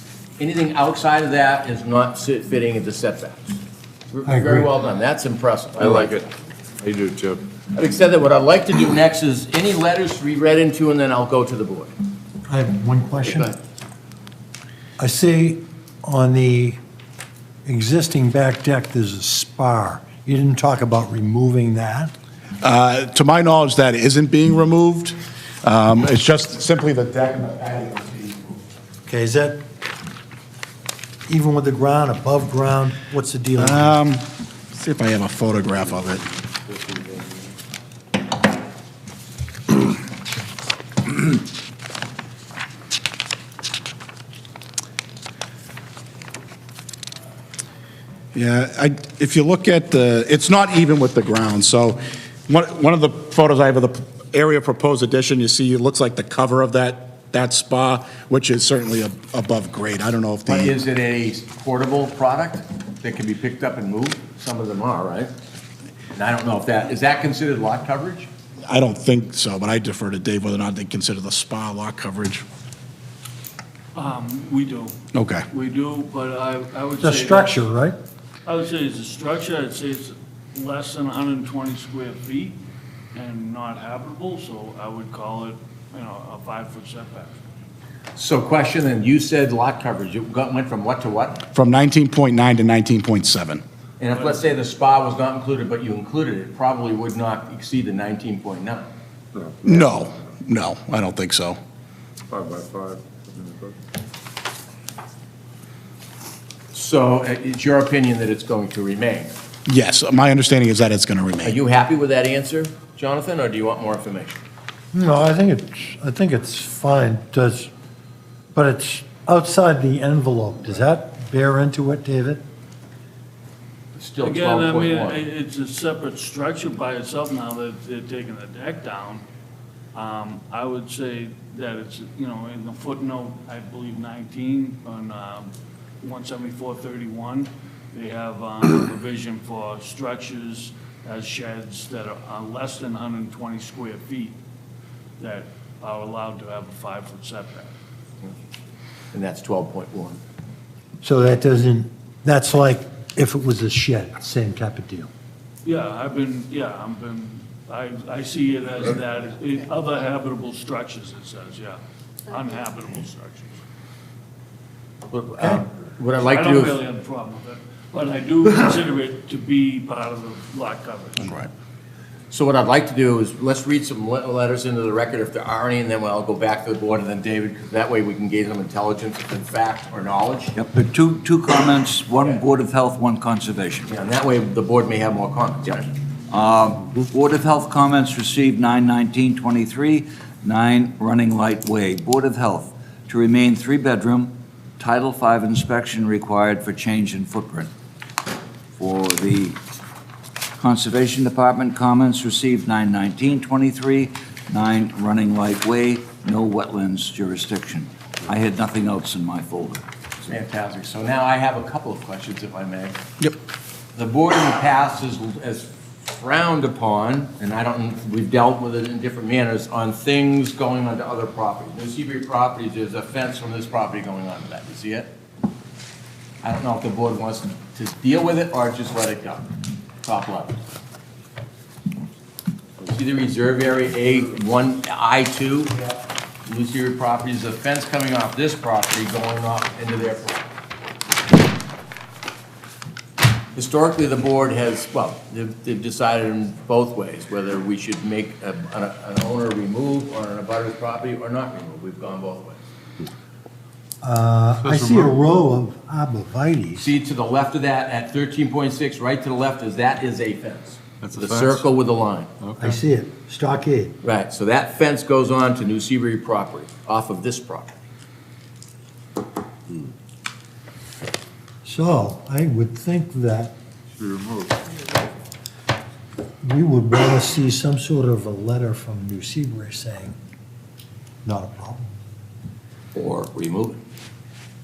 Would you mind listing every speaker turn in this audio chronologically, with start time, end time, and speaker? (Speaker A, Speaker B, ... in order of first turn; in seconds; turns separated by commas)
Speaker A: 0.4-6.2, Speaker B: 4.3-4.7, Speaker C: 5.8-6.3, Speaker C: 6.8-7.4, Speaker A: 7.7-11.9, Speaker B: 12.5-13.5, Speaker A: 13.2-13.6, Speaker B: 15.0-16.8, Speaker B: 17.7-22.1, Speaker D: 22.6-28.6, Speaker B: 29.1-29.6, Speaker B: 31.3-34.0, Speaker D: 33.6-36.2, Speaker C: 36.5-37.3, Speaker D: 48.3-60.8, Speaker A: 60.5-65.3, Speaker A: 66.1-68.3, Speaker D: 68.7-72.5, Speaker E: 74.0-75.0, Speaker D: 75.1-75.5, Speaker E: 75.5-77.6, Speaker B: 77.0-78.0, Speaker E: 78.5-82.6, Speaker E: 83.1-87.4, Speaker A: 88.2-91.4, Speaker D: 91.5-93.6, Speaker A: 94.0-98.9, Speaker E: 94.1-94.4, Speaker C: 99.3-100.1, Speaker D: 99.6-101.6, Speaker C: 102.3-103.8, Speaker A: 106.7-109.3, Speaker D: 109.7-111.6, Speaker A: 111.4-114.4, Speaker B: 114.9-117.7, Speaker B: 118.5-122.4, Speaker A: 124.0-125.2, Speaker E: 124.2-129.2, Speaker E: 129.9-144.4, Speaker E: 145.2-147.7, Speaker A: 149.1-150.2, Speaker B: 151.0-155.1, Speaker E: 155.7-163.5, Speaker A: 165.1-166.8, Speaker B: 165.4-165.6, Speaker E: 166.3-171.5, Speaker A: 172.3-180.6, Speaker F: 180.6-183.9, Speaker A: 183.9-185.9, Speaker F: 186.3-197.7, Speaker F: 198.8-199.6, Speaker F: 200.6-209.8, Speaker A: 210.3-213.0, Speaker A: 213.9-225.1, Speaker A: 226.4-230.6, Speaker A: 232.8-240.4, Speaker A: 243.6-252.6, Speaker B: 254.0-256.9, Speaker C: 254.6-255.2, Speaker A: 256.8-262.3, Speaker C: 261.0-261.6, Speaker C: 262.4-262.8, Speaker B: 262.6-264.0, Speaker A: 264.0-267.7, Speaker B: 271.6-273.6, Speaker C: 274.0-274.8, Speaker B: 276.4-280.2, Speaker B: 281.2-281.9, Speaker A: 282.9-283.8